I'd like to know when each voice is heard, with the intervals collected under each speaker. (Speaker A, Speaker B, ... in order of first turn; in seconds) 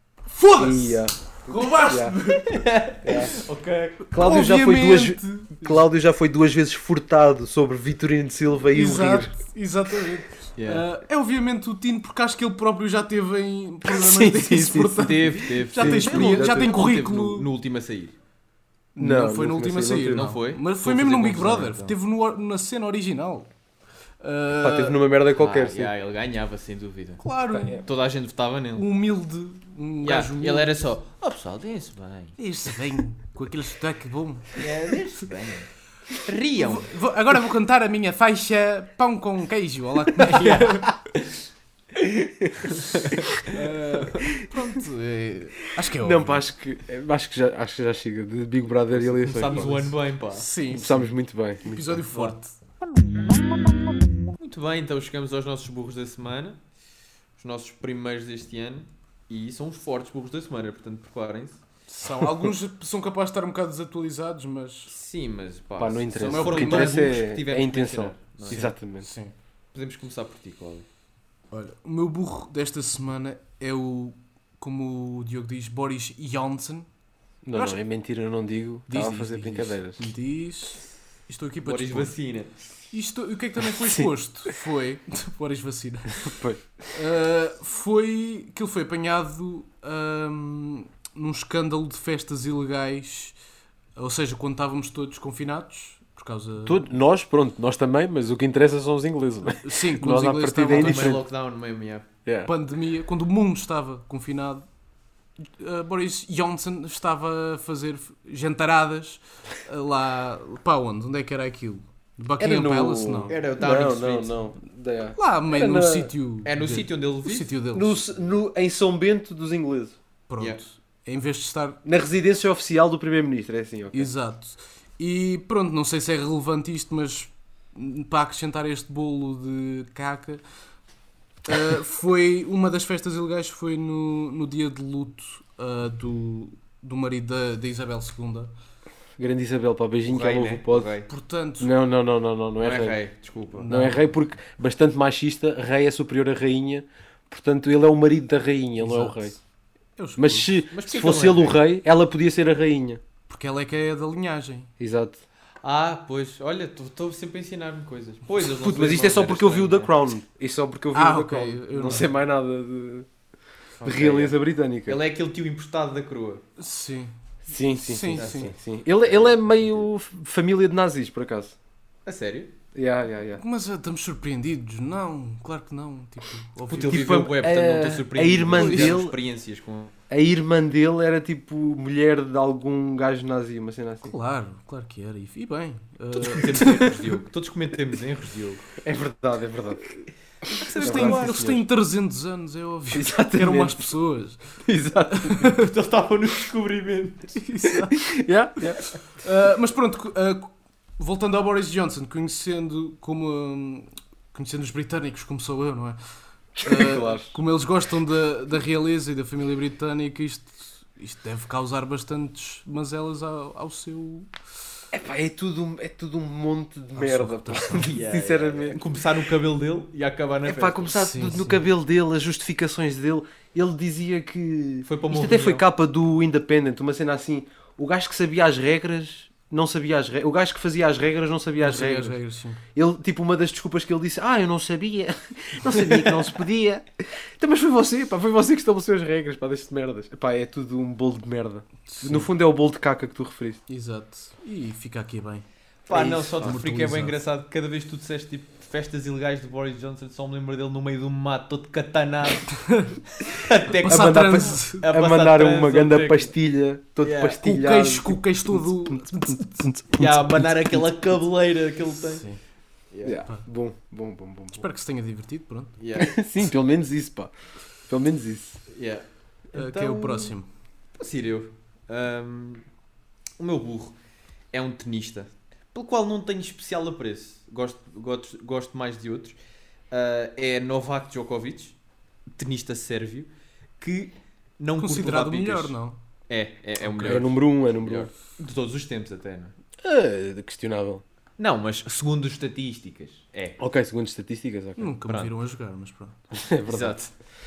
Speaker A: 0.3-2.7, 4.1-5.8, 8.7-17.5, 19.0-23.5, 24.2-25.0, 27.2-27.8, 28.8-30.7, 32.4-34.6, 36.6-40.9, 43.4-46.5, 50.3-51.1, 51.6-52.5, 61.9-64.9, 66.2-67.1, 68.5-69.3, 71.5-76.9, 78.9-82.1, 82.9-86.3, 86.9-93.3, 94.0-96.9, 99.6-101.2, 102.5-104.7, 105.6-113.3, 115.2-118.0, 120.3-121.8, 123.9-130.4, 131.4-138.5, 141.1-141.7, 143.6-144.1, 148.8-149.4, 150.0-150.6, 153.3-154.7, 160.9-162.1, 166.6-167.1, 167.8-168.5, 173.4-177.1, 178.6-179.0, 184.0-186.8, 190.8-194.4, 195.1-195.7, 197.3-198.1, 199.1-206.0, 206.6-214.3, 216.9-217.9, 220.9-221.6, 231.6-232.6, 241.9-242.3, 243.7-245.4, 246.4-247.2, 252.6-253.0, 253.8-254.8, 257.4-259.7, 261.9-262.4, 264.5-265.7, 269.5-270.5, 284.8-286.0, 286.8-287.2, 294.8-296.2
Speaker B: 0.6-2.1, 3.0-3.4, 4.1-9.3, 13.8-16.7, 18.9-20.3, 24.6-25.9, 27.5-27.8, 46.0-49.9, 50.7-52.1, 65.8-69.0, 77.4-80.1, 83.8-84.1, 86.2-86.6, 96.7-101.2, 102.2-102.5, 112.4-116.1, 117.7-120.0, 121.8-124.1, 139.2-140.9, 141.6-143.0, 143.7-149.3, 150.2-153.0, 154.8-155.2, 158.4-163.1, 163.8-165.0, 167.5-171.6, 172.7-173.4, 176.9-179.2, 180.1-184.1, 186.5-186.9, 188.8-189.8, 190.6-191.6, 192.9-193.9, 194.7-195.4, 197.9-198.8, 206.6-207.3, 214.9-218.8, 220.4-232.2, 232.7-243.6, 245.9-246.6, 253.8-260.9, 263.0-264.6, 265.9-267.3, 267.9-268.6, 287.0-288.1, 289.8-291.0, 293.6-294.9, 296.3-297.0
Speaker C: 2.5-4.0, 10.6-10.8, 15.0-18.1, 20.1-21.9, 25.4-27.2, 27.8-28.9, 30.0-32.4, 34.5-36.9, 40.2-41.3, 42.7-43.5, 48.9-50.5, 54.4-56.6, 57.4-61.6, 64.9-68.6, 69.7-70.8, 81.6-82.5, 100.7-102.0, 113.3-114.5, 116.4-117.5, 140.1-141.1, 142.6-143.8, 150.7-151.6, 155.6-159.9, 163.8-166.4, 168.1-168.5, 169.0-169.8, 172.1-172.5, 176.7-179.9, 186.2-188.7, 190.6-191.4, 195.4-197.3, 217.8-220.9, 224.8-225.6, 235.7-236.2, 245.8-252.6, 253.2-256.3, 257.0-257.4, 259.9-262.2, 262.9-263.2, 265.8-266.2, 268.7-270.3, 271.0-272.6, 273.4-273.9, 274.5-279.4, 279.9-281.8, 282.4-285.7, 286.3-289.5, 291.4-293.6, 295.1-295.3, 296.7-297.1